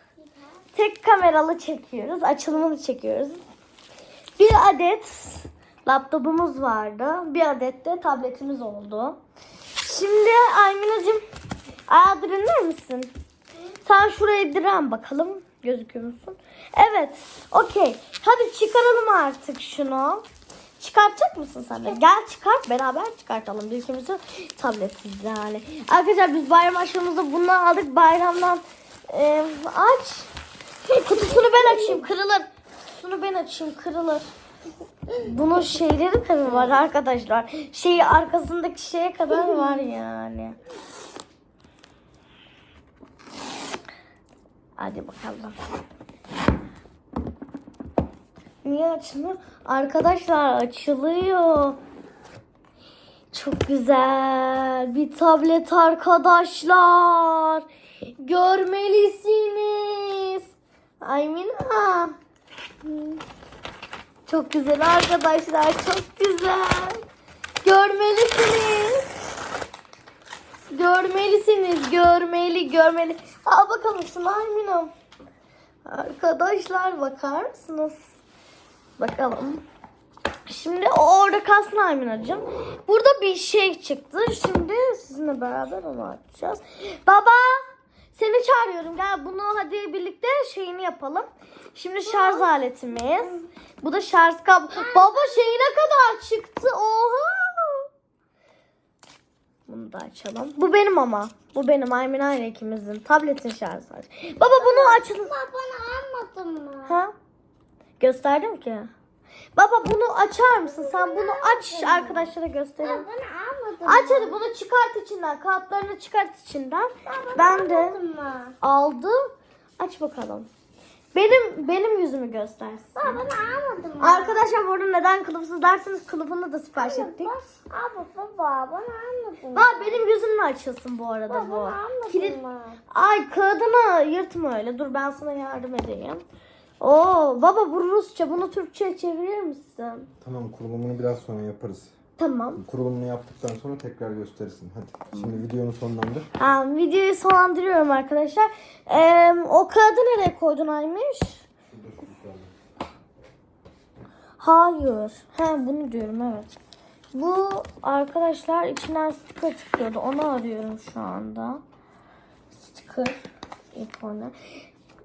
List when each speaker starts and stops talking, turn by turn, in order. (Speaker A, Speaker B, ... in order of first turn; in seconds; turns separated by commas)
Speaker A: 0.7-3.4, Speaker A: 4.4-9.2, Speaker A: 9.8-11.2, Speaker A: 11.9-13.1, Speaker A: 13.8-20.2, Speaker A: 20.8-30.3, Speaker A: 30.9-34.3, Speaker A: 35.2-40.6, Speaker A: 44.8-45.6, Speaker A: 48.6-51.8, Speaker A: 53.3-57.6, Speaker A: 58.2-60.5, Speaker A: 61.0-62.1, Speaker A: 64.3-67.0, Speaker A: 67.6-69.1, Speaker A: 70.7-74.9, Speaker A: 75.8-78.0, Speaker A: 79.0-79.6, Speaker A: 80.5-97.9, Speaker B: 92.1-92.5, Speaker A: 99.7-105.3, Speaker B: 104.5-107.0, Speaker A: 106.9-107.1, Speaker A: 108.0-108.9, Speaker A: 109.5-113.0, Speaker B: 110.6-112.3, Speaker B: 112.8-114.4, Speaker A: 113.8-118.0, Speaker B: 117.0-118.5, Speaker A: 118.6-119.2, Speaker A: 119.8-120.5, Speaker A: 121.1-123.2, Speaker B: 123.0-124.5, Speaker A: 124.0-127.3, Speaker B: 126.8-130.0, Speaker A: 129.5-132.4, Speaker B: 131.3-132.8, Speaker A: 132.9-136.2, Speaker A: 136.8-140.1, Speaker C: 140.2-141.9, Speaker A: 142.2-142.6, Speaker C: 142.6-146.3, Speaker A: 145.1-145.4, Speaker A: 146.4-151.4, Speaker C: 151.7-152.5, Speaker A: 154.4-156.6, Speaker A: 157.1-161.6, Speaker A: 162.6-163.2, Speaker A: 163.7-164.6